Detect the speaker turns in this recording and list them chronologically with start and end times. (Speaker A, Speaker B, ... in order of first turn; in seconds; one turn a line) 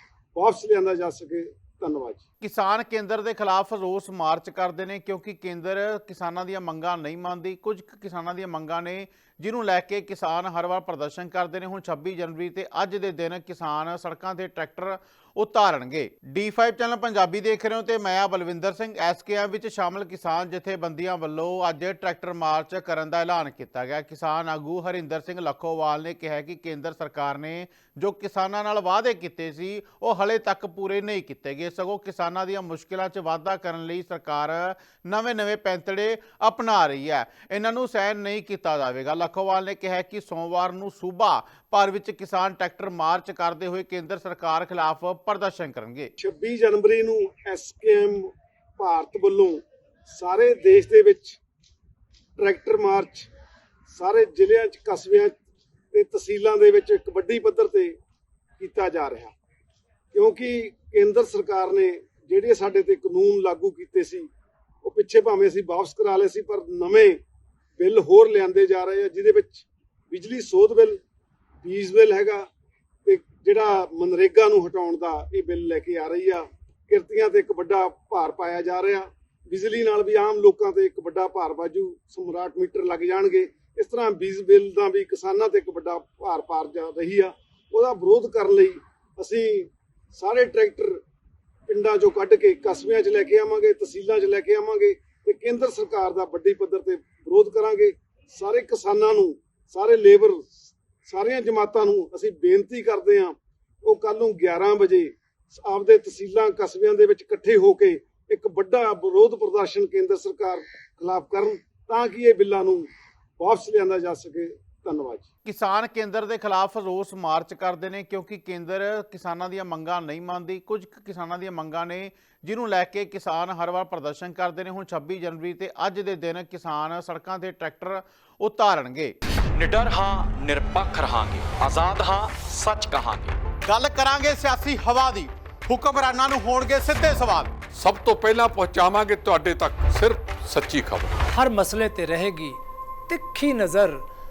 Speaker A: 0.3-2.2
Speaker B: 2.4-46.1
Speaker A: 46.2-51.4
Speaker A: 52.4-53.3
Speaker A: 53.9-55.4
Speaker A: 55.9-58.0
Speaker A: 58.6-59.3
Speaker A: 60.1-64.3
Speaker A: 64.8-67.2
Speaker A: 67.8-71.0
Speaker A: 71.6-72.5
Speaker A: 73.1-91.0
Speaker A: 91.7-100.5
Speaker A: 101.0-112.9
Speaker A: 113.4-115.3
Speaker B: 115.5-129.1
Speaker C: 129.6-133.4
Speaker B: 133.7-137.6
Speaker D: 137.7-141.2
Speaker E: 141.3-144.1